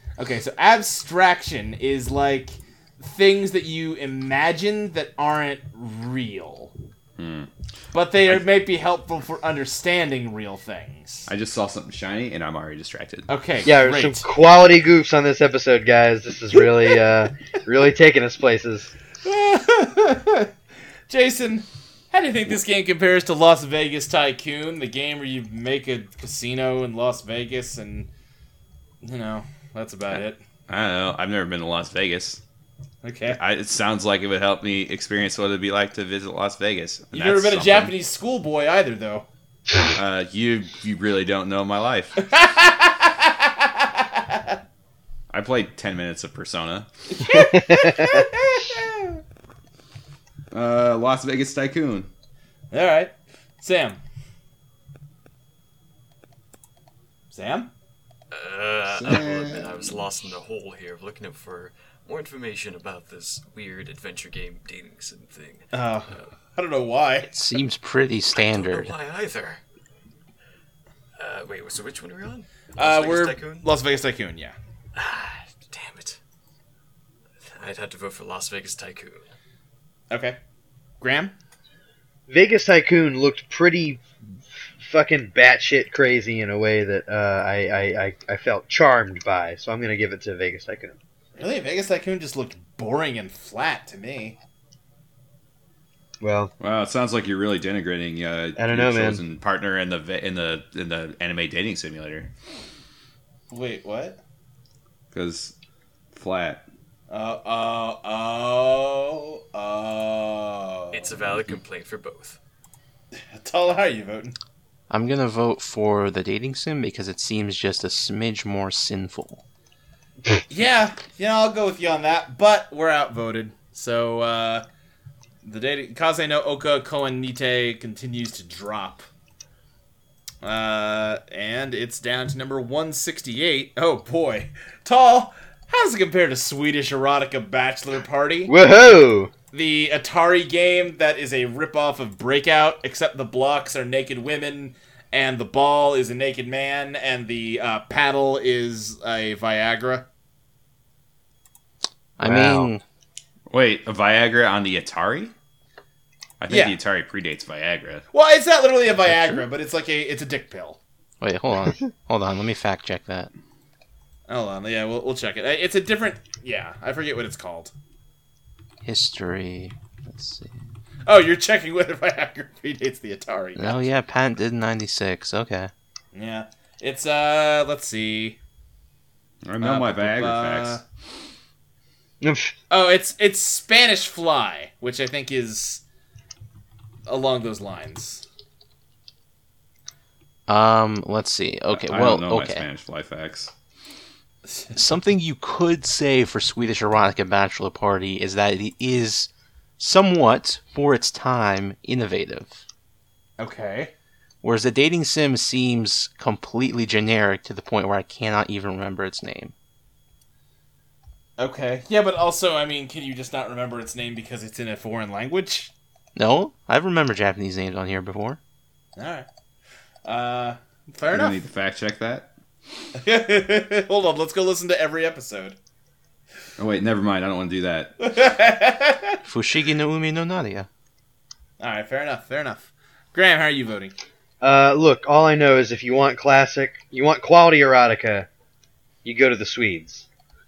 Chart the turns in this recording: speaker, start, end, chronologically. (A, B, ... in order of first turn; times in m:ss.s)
0:00.2-0:06.7 A
0:07.2-0:07.5 B
0:07.9-0:11.3 A
0:11.3-0:13.3 B
0:13.3-0:14.2 A
0:13.6-0:18.9 C
0:19.2-0:20.5 A
0:21.1-0:28.1 A
0:29.0-0:30.4 A
0:30.1-0:32.4 B
0:33.0-0:33.4 A
0:33.3-0:37.9 B
0:37.1-0:39.2 A
0:39.9-0:42.1 B
0:42.2-0:44.6 A
0:45.3-0:46.9 B
0:47.1-0:49.2 A
0:47.3-0:48.2 C
0:50.5-0:52.1 B
0:52.7-0:54.0 A
0:57.3-0:57.7 A
0:58.3-1:06.3 D
0:58.9-0:59.9 B
1:05.7-1:07.3 A
1:07.2-1:08.9 E
1:08.3-1:09.6 D
1:11.2-1:13.7 D
1:12.8-1:14.6 A
1:14.9-1:16.2 D
1:17.4-1:19.3 D
1:20.1-1:20.4 A
1:21.0-1:21.3 A
1:22.3-1:24.0 C
1:24.8-1:30.9 C
1:31.4-1:34.4 A
1:36.2-1:36.5 C
1:36.6-1:42.3 B
1:38.6-1:39.2 C
1:43.5-1:44.2 A
1:45.1-1:45.5 B
1:46.1-1:46.6 B
1:47.1-1:51.0 A
1:50.9-1:52.4 D
1:53.1-1:54.3 A
1:54.9-1:59.4 E
2:00.5-2:04.6 A
2:05.4-2:09.0 A
2:10.4-2:18.5 A
2:18.5-2:19.3 C
2:19.5-2:30.0 A
2:32.2-2:32.8 E
2:32.2-2:32.7 C
2:32.3-2:32.6 B
2:33.5-2:35.3 B
2:36.4-2:38.0 B
2:36.5-2:36.8 A
2:38.1-2:40.8 A
2:39.0-2:39.4 E
2:41.2-2:43.3 E
2:44.3-2:47.7 A
2:48.8-2:50.6 E
2:51.0-2:53.9 A
2:53.6-2:55.7 E
2:56.1-2:58.4 A
2:59.4-3:00.8 B
2:59.6-3:00.8 A
3:02.2-3:02.5 C
3:02.7-3:05.8 A
3:07.0-3:08.2 A
3:10.5-3:12.7 E
3:11.7-3:13.5 B
3:14.7-3:22.6 E
3:23.4-3:23.9 A
3:24.4-3:29.5 E
3:31.4-3:35.7 A
3:36.2-3:38.4 E
3:39.0-3:39.2 A
3:40.0-3:41.4 A
3:41.1-3:42.3 B
3:42.9-3:45.6 A
3:46.6-3:47.9 B
3:48.0-3:49.2 A
3:49.2-3:50.7 E
3:51.6-3:53.9 A
3:54.4-3:58.3 C
3:59.0-4:00.0 C